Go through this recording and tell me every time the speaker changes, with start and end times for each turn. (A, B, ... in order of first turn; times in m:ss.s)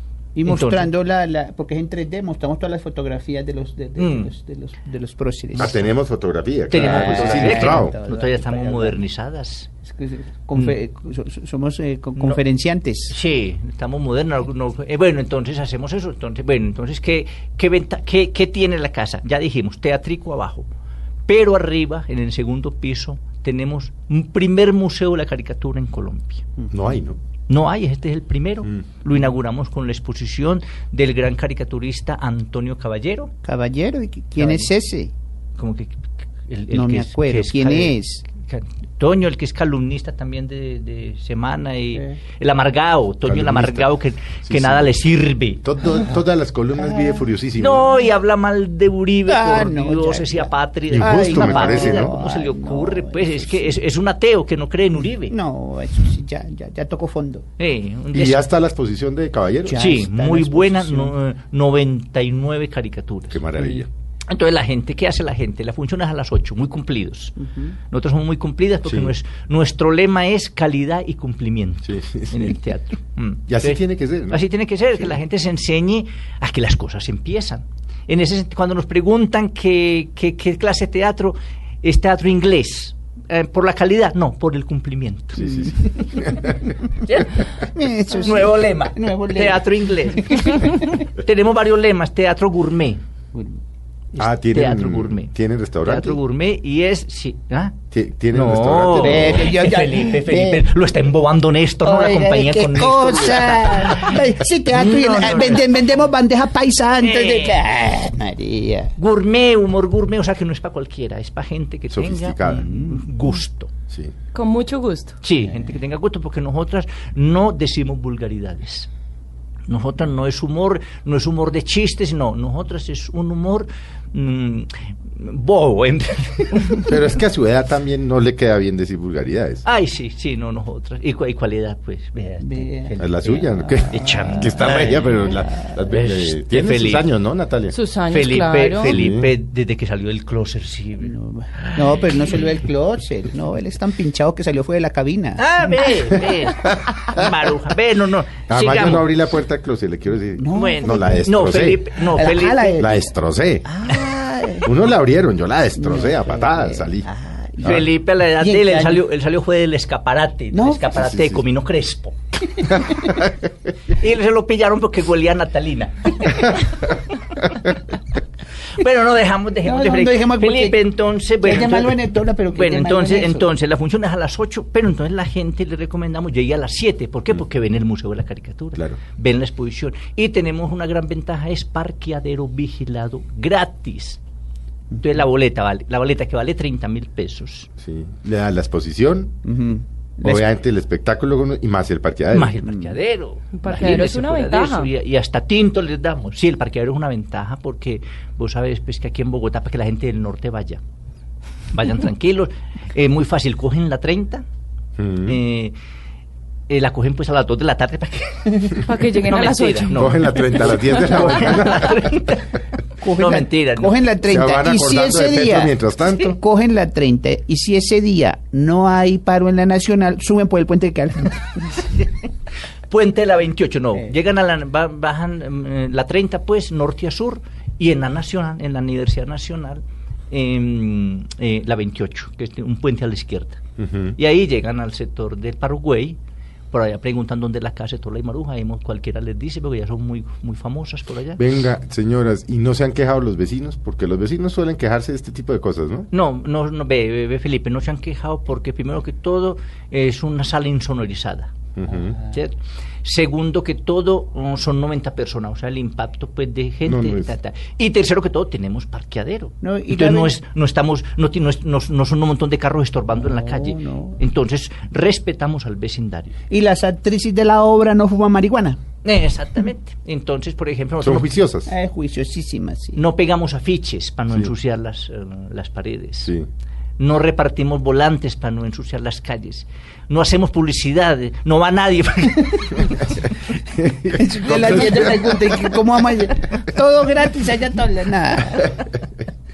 0:00.3-0:05.8 A
0:00.4-0:00.9 B
0:04.0-0:04.3 B
0:05.6-0:07.9 C
0:06.7-0:09.7 B
0:06.7-0:09.0 A
0:09.8-0:13.2 A
0:12.2-0:12.4 B
0:13.1-0:20.6 B
0:21.3-0:26.4 B
0:26.7-0:27.2 C
0:27.5-0:33.3 B
0:33.4-0:35.1 A
0:34.4-0:34.7 B
0:35.6-0:45.6 B
0:36.7-0:38.2 A
0:43.2-0:44.9 C
0:45.6-0:47.9 C
0:47.6-0:55.4 B
0:49.3-0:53.7 A
0:50.9-0:52.2 C
0:55.1-0:57.4 A
0:57.6-0:58.4 B
0:58.1-0:59.8 C
0:59.6-1:01.1 A
0:59.8-1:25.7 B
1:03.3-1:03.9 C
1:07.4-1:07.7 A
1:08.8-1:09.1 C
1:11.8-1:12.6 C
1:13.5-1:14.4 C
1:25.4-1:26.5 C
1:27.0-1:33.0 B
1:27.6-1:30.5 A
1:34.1-1:37.8 B
1:34.2-1:36.2 C
1:37.9-1:39.5 C
1:38.3-1:45.8 B
1:38.9-1:40.6 A
1:41.8-1:48.9 A
1:47.0-1:47.6 B
1:49.0-1:53.7 B
1:51.9-1:52.8 C
1:52.6-1:53.0 A
1:54.3-1:55.2 D
1:55.2-1:58.9 B
1:59.7-2:07.0 B
2:06.8-2:09.6 C
2:09.6-2:15.3 B
2:12.4-2:14.9 A
2:13.0-2:17.8 C
2:15.8-2:17.1 B
2:17.7-2:19.0 D
2:18.1-2:22.4 B
2:18.8-2:19.3 C
2:21.0-2:25.7 A
2:25.4-2:29.1 B
2:26.5-2:27.0 C
2:28.5-2:31.9 C
2:30.4-2:31.4 A
2:30.5-2:32.8 B
2:32.0-2:33.1 A
2:32.8-2:33.7 C
2:33.7-2:34.7 A
2:34.6-2:37.1 C
2:35.8-2:39.0 A
2:37.6-2:37.9 C
2:37.6-2:43.0 B
2:40.5-2:41.0 A
2:41.0-2:41.4 C
2:42.7-2:43.1 A
2:43.8-2:47.8 B
2:48.7-2:52.0 B
2:49.6-2:50.8 A
2:51.4-2:53.5 A
2:52.5-3:04.2 B
3:05.0-3:07.7 B
3:07.8-3:09.3 C
3:09.4-3:10.4 A
3:10.2-3:12.6 C
3:12.3-3:20.8 B
3:13.5-3:14.9 D
3:21.7-3:24.4 B
3:25.0-3:25.4 C
3:25.2-3:25.7 B
3:26.7-3:32.6 B
3:28.8-3:31.5 D
3:29.9-3:32.1 C
3:33.0-3:41.9 A
3:33.1-3:33.9 B
3:34.2-3:36.4 C
3:42.9-3:53.6 B
3:53.8-3:54.2 C
3:54.2-3:56.2 B
3:56.7-4:01.4 B
4:01.4-4:06.1 C
4:06.1-4:11.5 B
4:11.8-4:12.2 C
4:12.2-4:26.3 B
4:16.8-4:17.3 C
4:19.6-4:20.4 A
4:23.1-4:24.2 A
4:26.5-4:28.8 A
4:29.0-4:31.3 B
4:31.0-4:31.7 C
4:31.7-4:33.0 A
4:32.9-4:36.3 B
4:37.0-4:43.3 B
4:43.5-4:45.2 C
4:44.1-4:48.8 A